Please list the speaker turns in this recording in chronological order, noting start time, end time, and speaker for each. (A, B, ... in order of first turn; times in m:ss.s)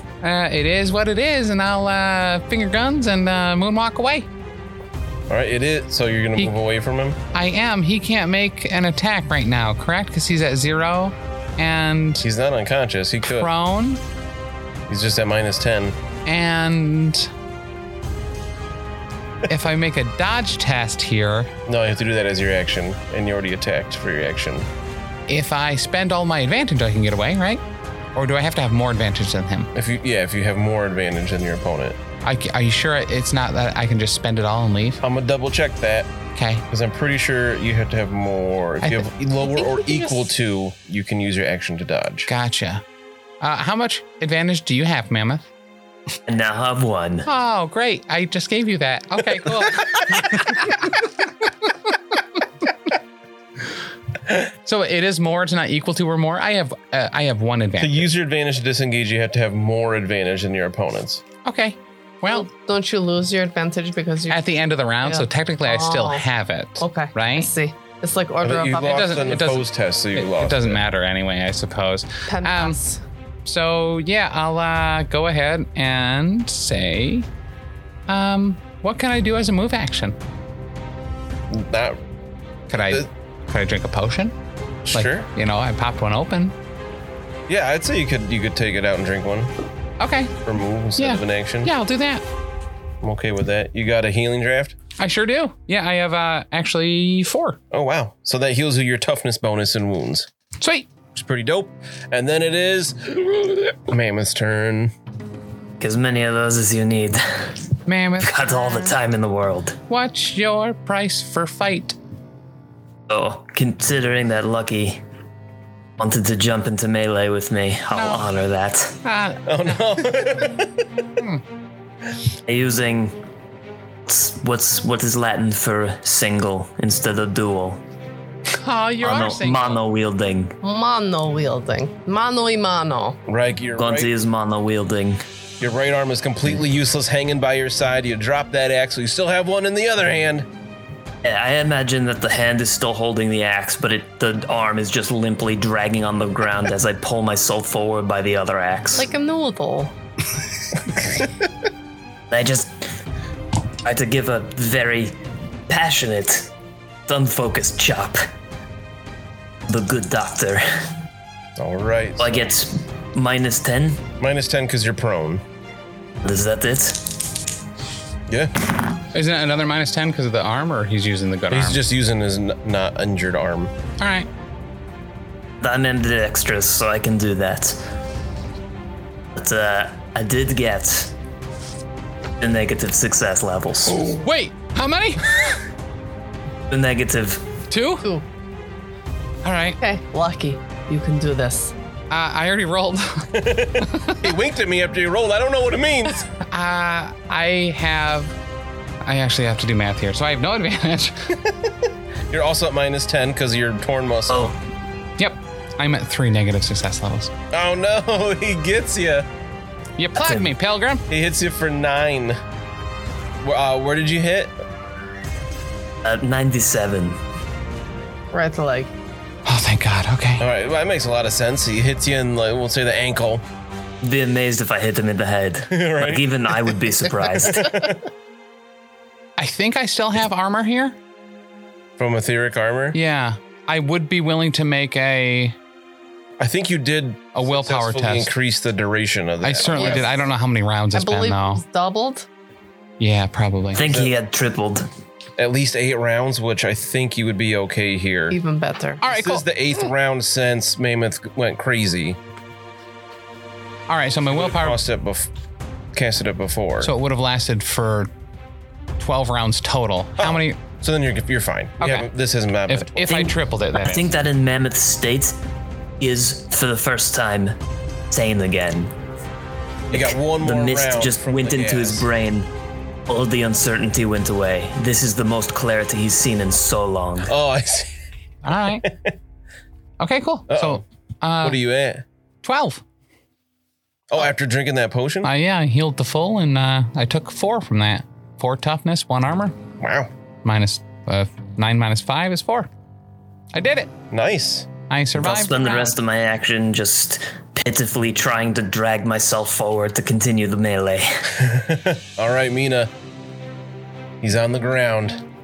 0:00.2-0:04.3 A
0:05.3-0:07.2 B
0:07.3-0:12.2 A
0:12.2-0:13.5 B
0:13.2-0:14.0 A
0:14.9-0:16.0 B
0:16.2-0:17.3 A
0:19.5-0:21.5 A
0:21.6-0:24.7 B
0:25.3-0:27.6 A
0:28.1-0:29.7 A
0:29.7-0:32.0 B
0:32.2-0:35.0 A
0:35.0-0:42.3 B
0:36.3-0:36.6 A
0:38.8-0:39.1 A
0:39.4-0:40.3 C
0:42.3-0:42.8 A
0:43.4-0:45.4 A
0:46.3-0:47.3 D
0:47.2-0:51.0 A
0:54.6-0:58.1 A
0:57.8-1:01.2 B
1:01.4-1:02.5 A
1:02.3-1:04.4 C
1:04.3-1:07.5 A
1:05.0-1:06.2 C
1:06.8-1:09.3 C
1:08.4-1:10.8 B
1:08.8-1:12.8 A
1:12.3-1:13.0 C
1:13.4-1:17.3 A
1:18.1-1:20.2 A
1:21.5-1:22.0 B
1:22.7-1:24.3 A
1:24.8-1:25.3 B
1:24.9-1:26.5 A
1:27.5-1:29.5 B
1:30.0-1:30.4 A
1:30.4-1:31.7 B
1:31.0-1:32.2 A
1:33.0-1:34.8 B
1:35.0-1:37.6 A
1:37.7-1:40.3 B
1:40.6-1:40.9 A
1:41.1-1:44.9 B
1:45.8-1:47.6 D
1:47.8-1:48.9 A
1:48.2-1:49.8 D
1:49.9-1:52.0 A
1:53.1-1:55.0 D
1:56.0-1:59.0 D
1:57.9-1:58.3 A
1:59.0-1:59.5 A
1:59.4-2:00.8 B
2:02.5-2:03.2 D
2:04.1-2:07.8 D
2:08.5-2:09.8 A
2:09.0-2:10.6 D
2:10.6-2:13.2 C
2:13.2-2:14.1 B
2:13.8-2:15.2 D
2:15.6-2:20.5 B
2:21.2-2:29.1 D
2:28.9-2:29.9 C
2:32.3-2:32.9 D
2:33.8-2:35.2 D
2:35.7-2:36.5 D
2:37.1-2:38.2 D
2:39.7-2:40.9 D
2:41.6-2:42.3 B
2:42.2-2:44.0 D
2:44.2-2:45.4 B
2:46.2-2:47.4 D
2:48.3-2:48.5 B
2:49.1-2:51.8 A
2:51.5-2:53.7 B
2:54.0-2:54.3 A
2:55.6-2:57.8 D
2:59.3-3:01.1 D
3:02.4-3:04.1 D
3:04.0-3:05.6 A
3:06.7-3:07.5 D
3:07.7-3:08.1 A
3:09.4-3:09.8 A
3:09.8-3:11.7 C
3:12.1-3:14.3 A
3:13.3-3:16.3 B
3:16.3-3:18.3 A
3:19.0-3:21.3 A
3:22.3-3:24.5 B
3:24.3-3:24.6 D
3:25.2-3:27.3 A
3:27.5-3:29.3 B
3:30.0-3:31.0 A
3:30.1-3:30.5 D
3:31.1-3:32.4 B
3:33.4-3:34.5 B
3:36.0-3:37.2 D
3:38.3-3:38.9 C
3:39.4-3:40.4 A
3:40.4-3:43.4 B
3:44.0-3:47.9 D
3:45.7-3:46.2 B
3:47.3-3:48.0 B
3:49.4-3:51.0 A
3:52.0-3:53.0 B
3:52.9-3:55.6 A
3:56.4-4:00.1 B
3:57.3-3:58.3 A
3:59.4-4:01.6 A
3:59.7-4:00.1 C
4:00.9-4:02.3 C
4:03.0-4:03.8 A
4:03.7-4:04.9 D
4:03.8-4:04.1 B
4:05.4-4:08.4 B
4:08.3-4:09.0 C
4:09.0-4:09.4 A
4:09.1-4:12.2 B
4:13.9-4:14.8 A
4:14.3-4:15.3 B
4:15.9-4:16.9 B
4:16.8-4:18.1 A
4:19.0-4:20.6 A
4:20.2-4:23.4 B
4:21.8-4:22.1 A
4:22.7-4:24.1 A
4:23.8-4:25.4 D
4:26.0-4:27.5 D
4:28.1-4:28.9 D
4:29.9-4:32.1 B
4:29.9-4:32.5 D
4:33.1-4:37.3 D
4:37.2-4:37.9 B
4:38.4-4:38.8 A
4:38.8-4:39.1 B
4:40.0-4:41.6 A
4:40.5-4:40.8 B
4:41.4-4:42.0 B
4:42.4-4:42.8 A
4:44.1-4:45.3 B
4:45.2-4:49.6 A
4:49.8-4:50.1 B
4:50.4-4:52.7 A
4:53.5-4:53.9 A
4:54.1-4:54.7 B
4:54.9-4:55.9 A
4:55.1-5:01.3 D
5:01.4-5:02.9 B
5:04.2-5:05.2 B